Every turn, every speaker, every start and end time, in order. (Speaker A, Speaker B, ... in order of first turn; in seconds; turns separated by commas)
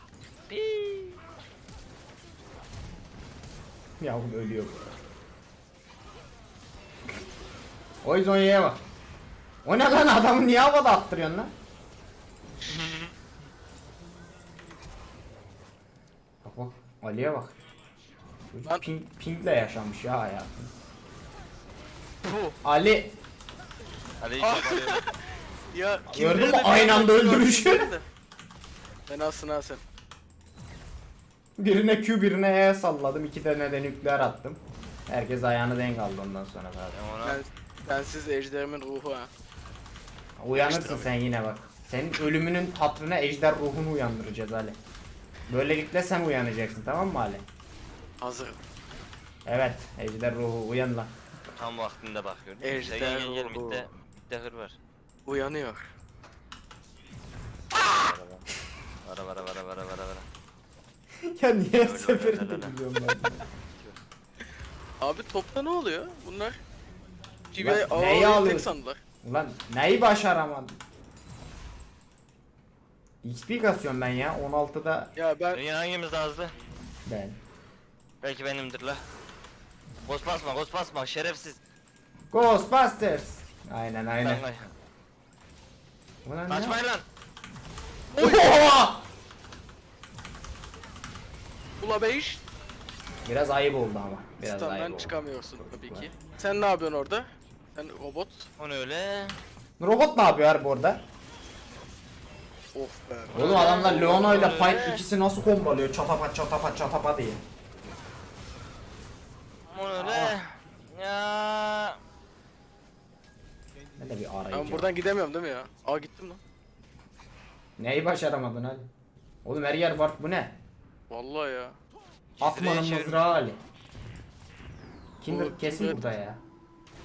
Speaker A: 0.5-1.2, Speaker B: 4.0-5.0, Speaker B: 8.0-8.8, Speaker B: 9.7-11.5, Speaker A: 12.7-13.1, Speaker B: 16.4-17.5, Speaker B: 18.5-20.7, Speaker A: 22.2-22.6, Speaker B: 22.6-23.1, Speaker A: 24.2-25.0, Speaker C: 24.4-28.1, Speaker B: 26.1-27.9, Speaker C: 29.1-29.8, Speaker B: 31.6-37.0, Speaker A: 36.9-37.4, Speaker C: 37.2-39.3, Speaker B: 40.4-44.8, Speaker C: 40.5-41.1, Speaker B: 45.5-47.5, Speaker C: 48.2-48.6, Speaker B: 49.5-51.1, Speaker A: 51.5-54.8, Speaker C: 52.6-53.9, Speaker C: 55.3-55.9, Speaker A: 57.7-58.5, Speaker A: 59.0-60.3, Speaker B: 61.3-63.5, Speaker A: 61.8-62.7, Speaker A: 63.7-64.0, Speaker C: 65.0-66.6, Speaker C: 67.5-69.0, Speaker B: 67.6-68.7, Speaker B: 69.2-70.8, Speaker B: 73.2-75.1, Speaker C: 75.2-75.6, Speaker A: 75.5-76.5, Speaker B: 77.1-77.4, Speaker A: 78.2-79.0, Speaker A: 80.0-81.6, Speaker B: 82.3-84.5, Speaker A: 84.2-84.7, Speaker B: 86.2-86.8, Speaker A: 86.5-87.0, Speaker C: 88.1-88.7, Speaker B: 88.2-89.0, Speaker C: 91.8-92.4, Speaker B: 93.3-96.1, Speaker C: 94.4-98.5, Speaker A: 98.6-99.4, Speaker B: 99.8-101.0, Speaker C: 102.7-104.4, Speaker A: 103.3-105.0, Speaker B: 103.3-107.4, Speaker A: 109.7-112.0, Speaker B: 110.0-110.4, Speaker B: 114.0-114.9, Speaker C: 114.5-116.4, Speaker B: 117.8-118.9, Speaker B: 119.5-120.6, Speaker C: 121.1-121.8, Speaker A: 122.4-123.3, Speaker B: 122.4-123.6, Speaker B: 125.2-126.4, Speaker C: 125.3-126.1